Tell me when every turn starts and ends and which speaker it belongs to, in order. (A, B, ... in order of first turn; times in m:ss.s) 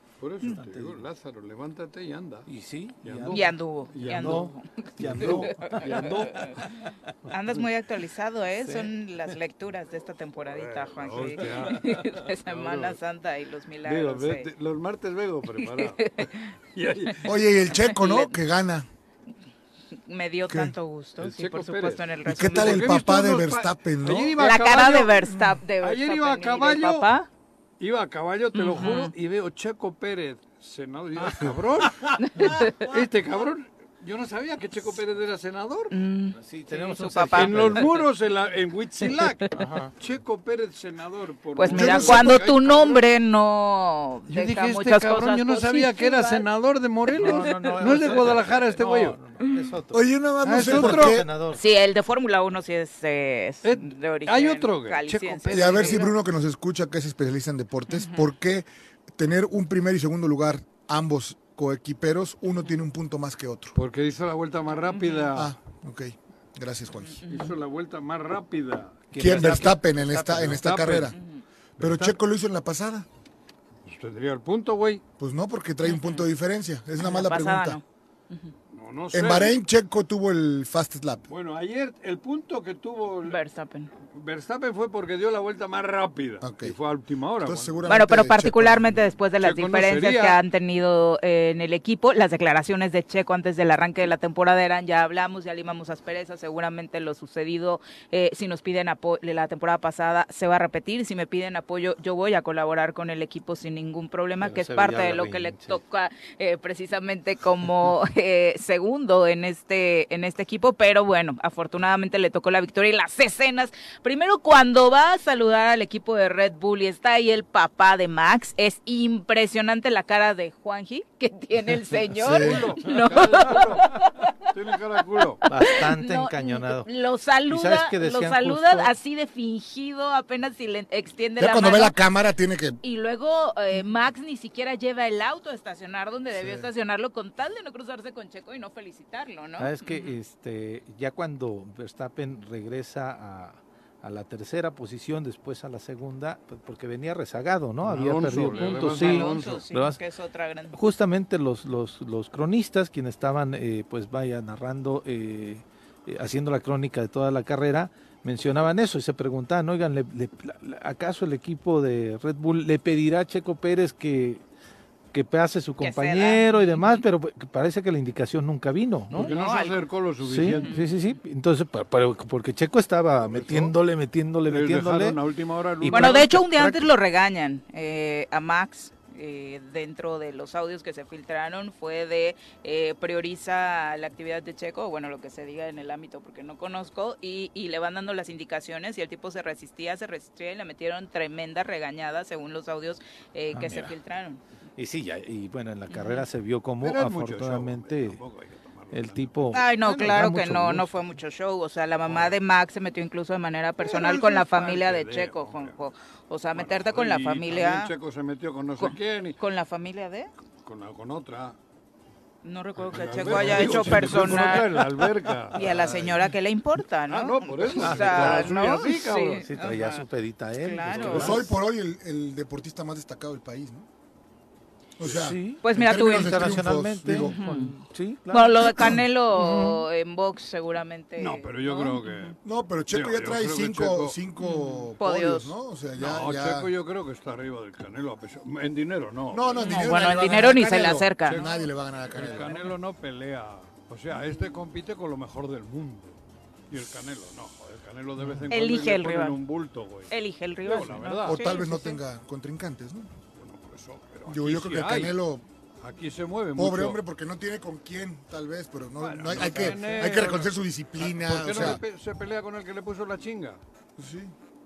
0:00.2-0:02.5 A
0:00.4-0:01.1 B
0:02.5-0:06.6 B
0:03.0-0:04.5 A
0:03.3-0:06.6 C
0:05.0-0:06.5 A
0:07.3-0:14.5 C
0:07.3-0:07.6 B
0:08.6-0:08.9 B
0:10.4-0:13.0 A
0:13.8-0:16.2 A
0:15.6-0:16.5 C
0:16.7-0:17.3 A
0:17.2-0:18.8 D
0:17.9-0:18.3 C
0:20.1-0:23.0 C
0:20.5-0:20.7 D
0:21.2-0:25.3 A
0:22.2-0:24.5 D
0:24.4-0:27.3 C
0:25.2-0:25.5 D
0:25.8-0:27.1 A
0:27.8-0:35.9 A
0:28.5-0:29.1 C
0:32.2-0:32.9 C
0:35.9-0:38.0 C
0:36.3-0:38.0 B
0:37.3-0:43.0 A
0:39.0-0:39.5 C
0:39.5-0:39.9 B
0:41.6-0:46.4 C
0:41.7-0:42.6 D
0:44.3-0:49.2 A
0:47.1-0:48.2 C
0:47.2-0:51.6 B
0:49.9-0:51.3 D
0:50.4-0:51.2 A
0:51.5-0:56.1 C
0:53.6-0:56.1 A
0:55.5-1:03.8 D
0:57.9-0:58.2 C
1:03.7-1:05.5 A
1:04.8-1:05.4 C
1:05.3-1:07.2 D
1:07.1-1:07.5 C
1:07.3-1:09.6 A
1:09.1-1:10.7 B
1:09.2-1:11.2 D
1:10.5-1:11.2 A
1:11.8-1:12.2 A
1:11.8-1:13.0 D
1:13.8-1:15.0 A
1:15.2-1:17.8 D
1:15.8-1:16.2 C
1:17.0-1:18.5 C
1:18.7-1:19.6 A
1:19.1-1:21.2 D
1:21.3-1:23.4 A
1:23.3-1:23.9 C
1:24.1-1:27.8 A
1:26.4-1:26.8 D
1:27.4-1:29.0 D
1:27.8-2:04.3 C
1:29.4-1:30.4 A
1:44.4-1:45.8 B
2:02.1-2:02.7 D
2:02.3-2:04.0 A
2:04.5-2:05.4 A
2:05.4-2:06.9 B
2:05.5-2:12.0 C
2:07.5-2:08.9 B
2:11.4-2:12.8 D
2:12.8-2:20.2 C
2:16.3-2:16.6 D
2:19.6-2:30.0 B
2:27.8-2:29.6 A
2:28.5-2:30.8 C
2:30.7-2:44.4 B
2:45.1-2:49.3 B
2:45.8-2:47.0 C
2:49.1-2:49.8 C
2:49.1-2:50.8 A
2:50.2-2:55.2 B
2:50.4-2:51.1 C
2:53.3-2:53.7 A
2:54.5-2:56.3 A
2:55.8-2:56.8 B
2:55.9-3:14.4 C
3:13.5-3:13.9 B
3:14.8-3:18.2 B
3:15.9-3:16.2 C
3:16.8-3:19.6 A
3:18.9-3:21.0 B
3:19.5-3:27.9 C
3:22.0-3:22.4 A
3:23.8-3:25.7 A
3:26.5-3:29.4 A
3:28.8-3:30.3 C
3:30.6-3:31.6 A
3:32.4-3:34.9 C
3:32.8-3:36.2 A
3:33.3-3:34.8 B
3:35.5-3:40.0 C
3:37.1-3:40.0 A
3:37.8-3:38.5 B
3:39.4-3:41.4 B
3:40.5-3:41.5 C
3:40.9-3:41.4 A
3:41.0-3:43.9 D
3:45.0-3:47.5 D
3:45.1-3:49.8 B
3:45.6-3:47.7 C
3:48.3-3:52.3 C
3:48.6-3:49.0 D
3:51.2-3:52.3 A
3:52.4-3:56.7 D
3:52.9-3:54.2 A
3:54.4-3:55.5 C
3:56.0-4:00.5 A
3:59.3-4:02.6 D
3:59.6-4:01.6 C
4:01.2-4:06.2 A
4:02.2-4:02.7 C
4:06.7-4:11.6 A
4:08.5-4:09.4 C
4:10.1-4:12.0 C
4:11.2-4:13.1 D
4:13.4-4:15.2 A
4:14.3-4:15.4 D
4:15.8-4:17.0 A
4:16.6-4:21.8 D
4:19.0-4:23.6 A
4:24.0-4:24.3 D